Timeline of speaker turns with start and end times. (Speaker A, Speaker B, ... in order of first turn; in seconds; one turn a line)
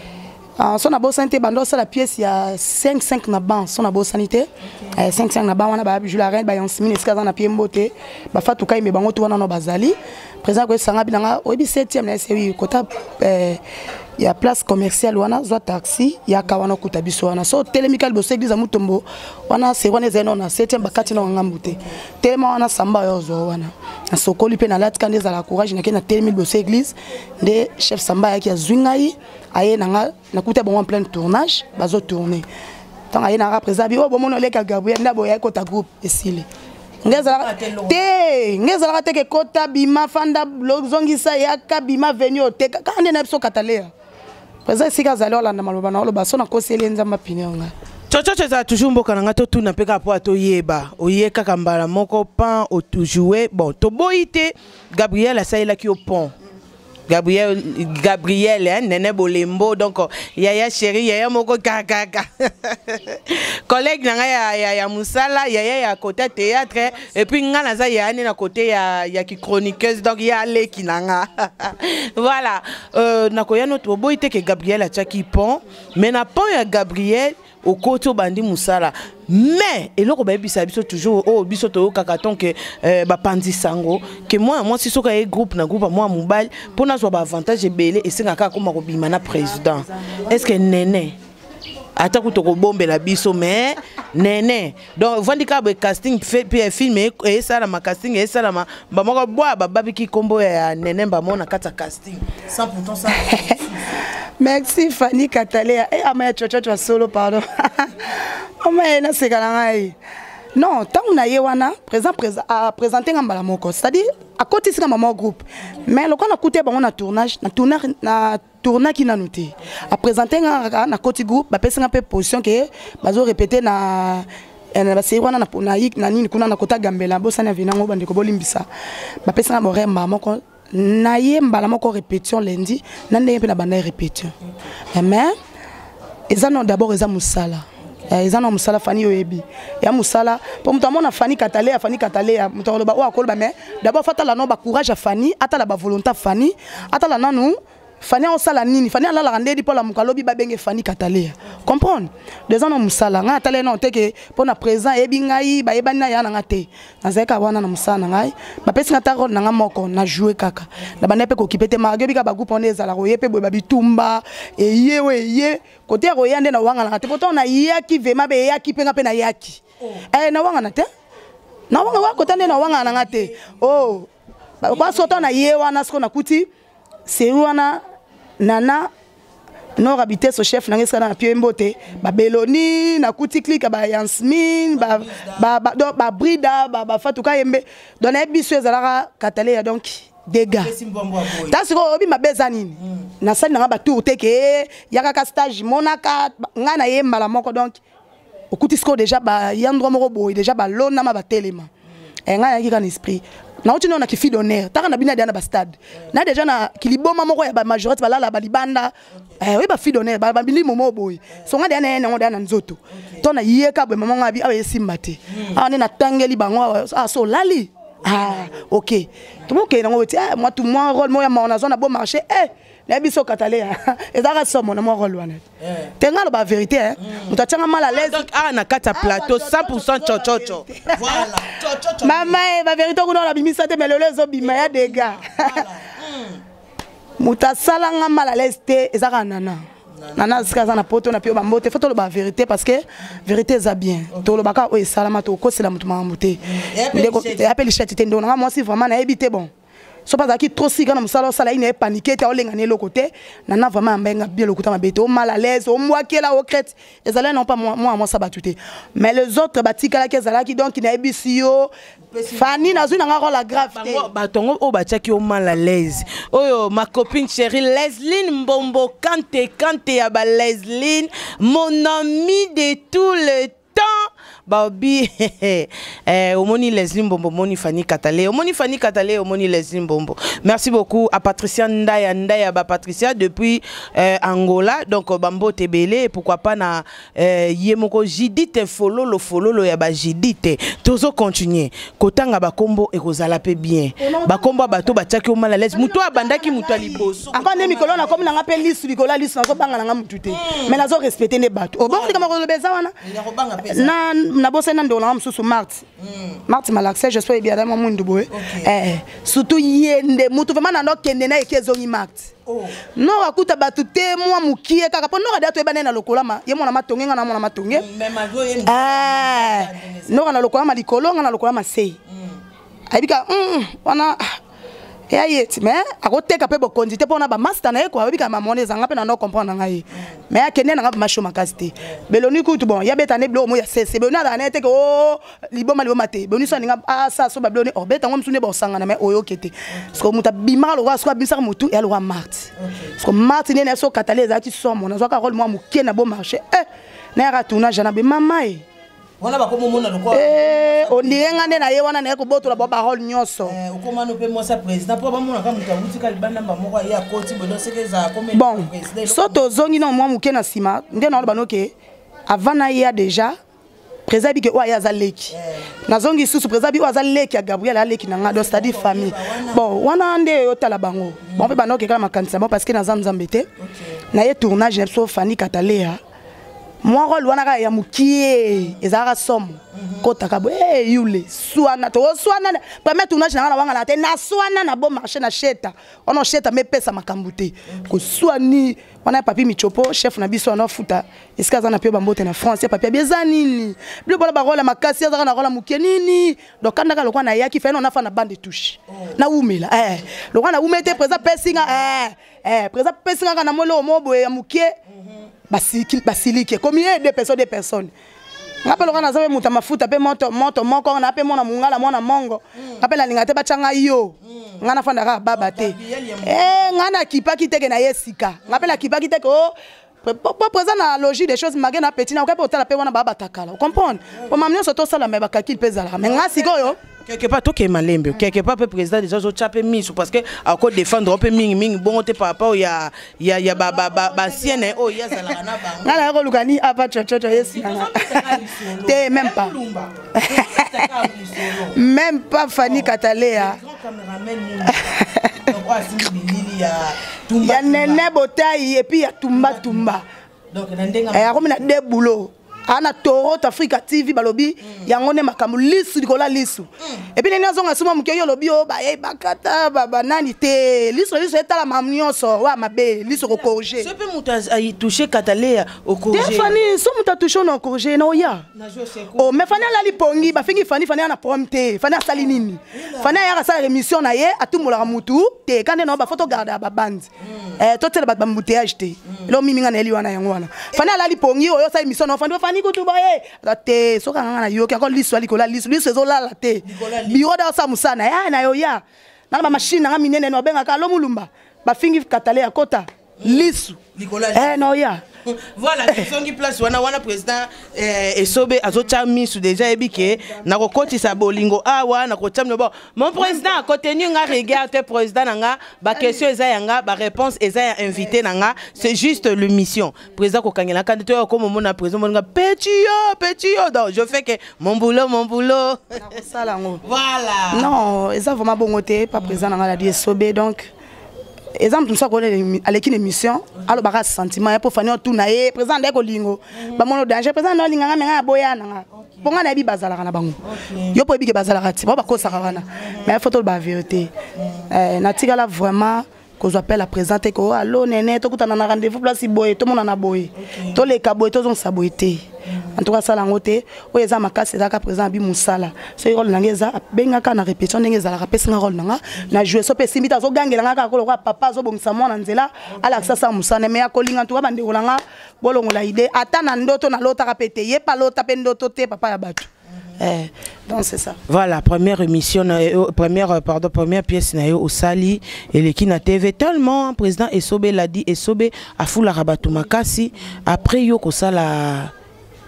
Speaker A: 0.6-13.6
Speaker A: 14.2-32.5
Speaker B: 20.8-22.0
Speaker A: 33.1-36.5
Speaker A: 37.0-43.9
Speaker B: 37.0-38.0
Speaker A: 44.6-47.7
Speaker B: 48.1-56.3
Speaker B: 57.1-91.2
Speaker B: 92.0-104.0
Speaker A: 103.1-103.5
Speaker A: 104.4-110.0
Speaker A: 110.5-128.7
Speaker A: 129.2-134.3
Speaker A: 134.9-135.3
Speaker A: 136.3-170.9
Speaker A: 171.7-174.1
Speaker B: 171.8-173.9
Speaker A: 174.6-176.5
Speaker B: 174.7-175.3
Speaker A: 177.1-177.8
Speaker A: 178.4-178.9
Speaker A: 179.8-190.7
Speaker B: 184.7-185.5
Speaker B: 190.5-191.6
Speaker A: 191.5-197.8
Speaker A: 198.5-201.7
Speaker A: 202.2-225.4
Speaker B: 212.9-213.2
Speaker B: 215.3-215.6
Speaker B: 218.0-218.6
Speaker B: 225.6-225.9
Speaker A: 226.0-228.2
Speaker B: 227.0-227.3
Speaker B: 227.9-232.4
Speaker A: 228.9-231.3
Speaker A: 232.0-235.7
Speaker B: 234.4-236.4
Speaker A: 237.2-239.6
Speaker B: 239.9-240.5
Speaker A: 240.2-249.5
Speaker B: 246.4-247.5
Speaker A: 250.1-261.7
Speaker B: 262.1-263.0
Speaker A: 262.3-264.1
Speaker B: 263.6-298.3
Speaker A: 294.0-294.9
Speaker A: 295.7-302.9
Speaker B: 300.3-300.8
Speaker B: 301.8-302.3
Speaker B: 303.0-304.1
Speaker A: 303.6-305.8
Speaker B: 306.0-306.4
Speaker A: 306.5-312.3
Speaker B: 308.3-308.7
Speaker B: 312.4-312.8
Speaker A: 312.9-317.9
Speaker B: 317.7-320.3
Speaker A: 318.6-322.0
Speaker B: 322.1-322.4
Speaker A: 322.9-324.4
Speaker A: 325.1-348.6
Speaker B: 339.7-340.0
Speaker B: 342.6-342.9
Speaker B: 349.2-351.4
Speaker A: 350.1-353.6
Speaker B: 353.4-359.6
Speaker A: 358.3-361.7
Speaker A: 362.3-363.4
Speaker A: 364.1-365.3
Speaker B: 365.3-365.7
Speaker A: 365.9-373.5
Speaker B: 368.2-369.6
Speaker B: 371.2-371.5
Speaker B: 373.6-374.0
Speaker A: 374.1-376.0
Speaker A: 376.8-404.8
Speaker B: 379.7-380.1
Speaker B: 387.7-388.1
Speaker B: 398.9-399.2
Speaker B: 400.8-401.9
Speaker B: 404.9-405.3
Speaker A: 405.5-407.9
Speaker A: 408.6-426.8
Speaker B: 412.6-412.9
Speaker B: 414.2-414.6
Speaker B: 415.3-416.6
Speaker B: 418.5-418.8
Speaker B: 424.0-424.5
Speaker B: 426.0-436.1
Speaker A: 433.9-434.7
Speaker A: 435.8-439.5
Speaker B: 437.3-441.8
Speaker A: 440.1-440.9
Speaker A: 441.5-443.6
Speaker B: 442.6-448.1
Speaker A: 444.7-445.4
Speaker A: 447.4-450.0
Speaker B: 449.3-449.9
Speaker B: 450.5-451.7
Speaker A: 451.1-463.9
Speaker B: 463.7-466.6
Speaker A: 466.1-468.4
Speaker B: 468.5-470.6
Speaker A: 469.1-493.8
Speaker B: 472.1-473.2
Speaker B: 477.2-477.6
Speaker B: 479.1-479.3
Speaker B: 486.6-487.2
Speaker B: 493.2-494.6
Speaker A: 494.3-495.0
Speaker B: 495.2-516.1
Speaker A: 516.0-516.8
Speaker B: 516.8-517.7
Speaker A: 517.5-520.7
Speaker B: 519.1-519.4
Speaker A: 521.5-530.4
Speaker B: 523.6-523.8
Speaker B: 526.5-526.8
Speaker B: 529.0-529.3
Speaker B: 530.4-531.0
Speaker A: 530.9-534.1
Speaker B: 532.0-533.1
Speaker B: 534.4-534.7
Speaker A: 534.7-561.2
Speaker B: 540.3-540.8
Speaker B: 542.5-542.8
Speaker B: 552.7-553.1
Speaker B: 561.3-571.9